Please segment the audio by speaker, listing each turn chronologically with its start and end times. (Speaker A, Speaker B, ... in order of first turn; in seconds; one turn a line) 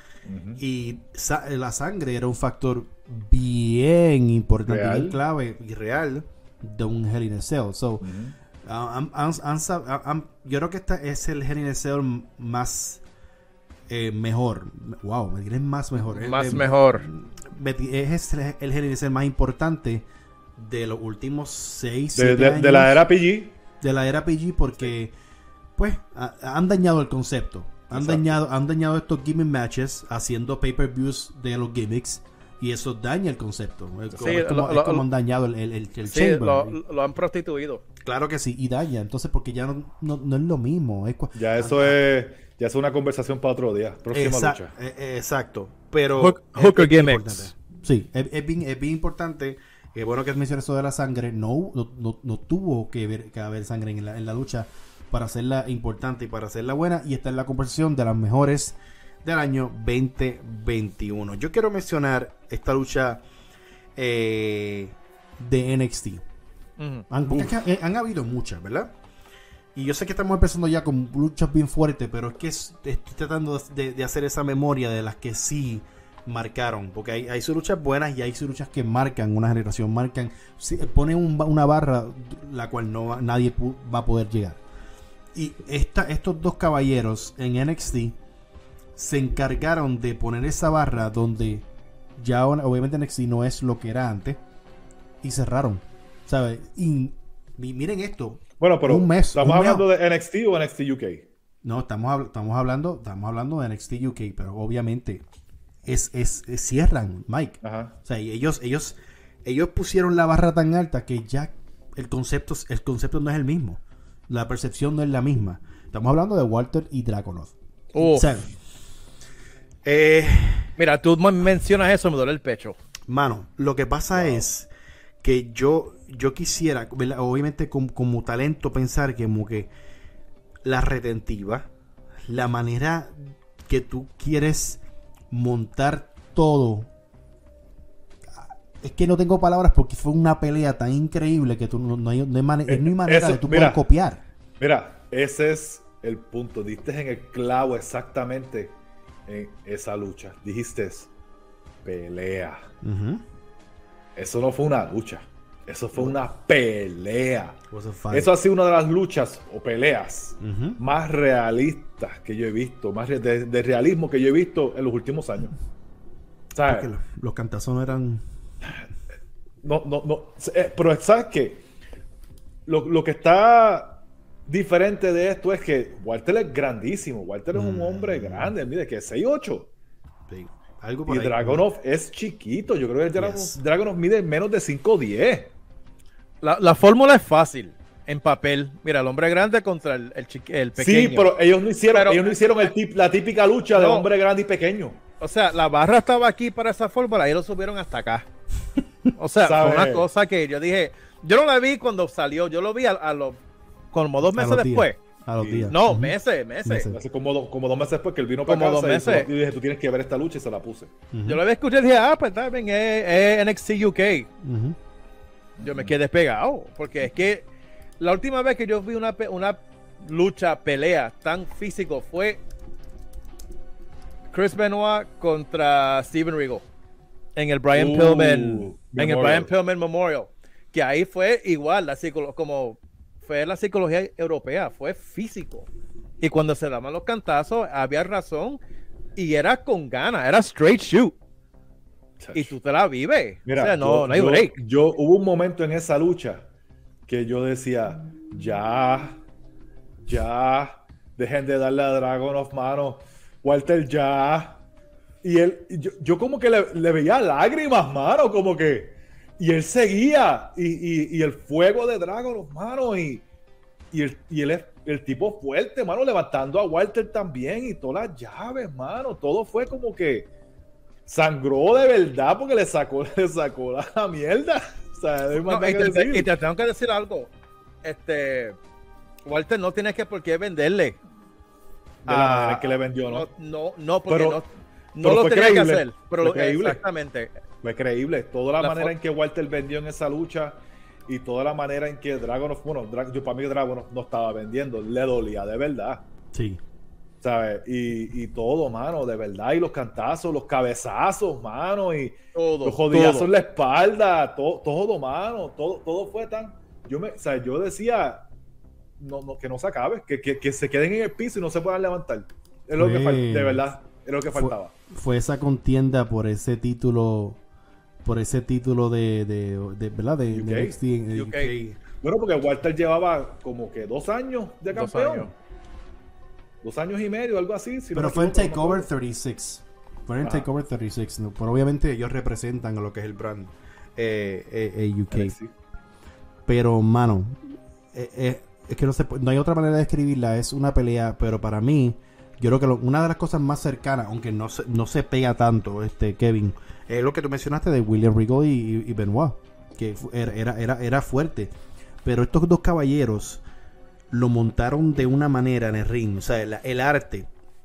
Speaker A: 0.3-0.6
Speaker B: 0.6-8.0
Speaker A: 4.7-5.2
Speaker A: 8.0-8.3
Speaker B: 8.6-13.0
Speaker B: 13.9-20.1
Speaker C: 16.1-17.1
Speaker B: 20.6-23.0
Speaker A: 22.1-23.6
Speaker B: 23.8-25.1
Speaker B: 25.8-36.8
Speaker A: 27.9-28.4
Speaker A: 34.1-34.4
Speaker C: 34.2-35.0
Speaker C: 36.0-37.8
Speaker B: 38.0-42.0
Speaker A: 41.3-44.7
Speaker B: 44.1-63.2
Speaker C: 46.2-47.5
Speaker B: 64.0-66.2
Speaker C: 66.8-67.1
Speaker B: 67.1-68.9
Speaker B: 69.7-84.6
Speaker B: 85.3-88.2
Speaker B: 89.0-91.7
Speaker B: 92.2-94.4
Speaker B: 95.2-99.8
Speaker A: 98.6-101.3
Speaker B: 101.6-105.2
Speaker B: 105.8-118.5
Speaker A: 107.6-107.9
Speaker C: 117.9-118.3
Speaker B: 119.8-120.7
Speaker C: 120.8-122.8
Speaker B: 123.1-124.7
Speaker B: 125.2-129.7
Speaker B: 130.6-131.7
Speaker B: 132.3-136.9
Speaker B: 138.3-144.2
Speaker A: 142.7-143.8
Speaker A: 144.6-151.1
Speaker A: 151.8-152.7
Speaker B: 152.8-153.2
Speaker A: 154.2-157.6
Speaker B: 157.7-158.3
Speaker A: 158.1-165.5
Speaker B: 160.4-160.8
Speaker A: 166.5-166.9
Speaker B: 166.7-168.2
Speaker A: 169.6-171.7
Speaker A: 172.7-179.7
Speaker B: 177.5-178.5
Speaker B: 180.3-181.6
Speaker A: 181.1-185.5
Speaker B: 183.2-183.6
Speaker C: 186.4-191.3
Speaker A: 190.7-195.0
Speaker C: 191.9-192.7
Speaker C: 193.7-194.1
Speaker C: 195.2-198.3
Speaker C: 199.1-203.4
Speaker A: 199.4-200.1
Speaker C: 203.9-205.0
Speaker B: 204.2-207.0
Speaker A: 205.4-205.7
Speaker C: 205.7-206.9
Speaker A: 206.9-210.9
Speaker C: 208.5-209.3
Speaker B: 211.1-211.4
Speaker C: 211.2-214.3
Speaker B: 214.4-214.8
Speaker A: 215.6-215.9
Speaker C: 215.6-217.4
Speaker C: 218.0-222.4
Speaker C: 224.3-226.7
Speaker C: 227.3-235.7
Speaker A: 227.7-229.5
Speaker C: 236.2-238.6
Speaker C: 239.2-241.1
Speaker A: 242.2-242.5
Speaker C: 242.3-244.5
Speaker A: 243.4-246.5
Speaker A: 247.1-249.2
Speaker A: 250.0-254.6
Speaker A: 255.2-263.2
Speaker A: 263.9-270.3
Speaker A: 271.1-276.3
Speaker C: 275.4-277.3
Speaker C: 277.8-278.6
Speaker C: 279.2-281.0
Speaker A: 282.0-283.3
Speaker C: 282.1-287.3
Speaker A: 284.1-284.4
Speaker A: 285.0-286.8
Speaker A: 287.6-296.0
Speaker C: 288.6-288.9
Speaker B: 296.3-296.6
Speaker A: 297.2-308.3
Speaker C: 302.3-303.3
Speaker A: 309.0-314.7
Speaker B: 312.7-313.7
Speaker B: 314.3-317.4
Speaker B: 318.0-321.8
Speaker A: 320.3-320.8
Speaker C: 321.1-321.5
Speaker A: 322.0-325.3
Speaker C: 324.7-325.3
Speaker A: 326.6-328.9
Speaker B: 327.9-335.3
Speaker A: 330.2-330.5
Speaker A: 335.1-335.5
Speaker B: 336.5-351.5
Speaker B: 352.0-353.4
Speaker B: 354.1-357.3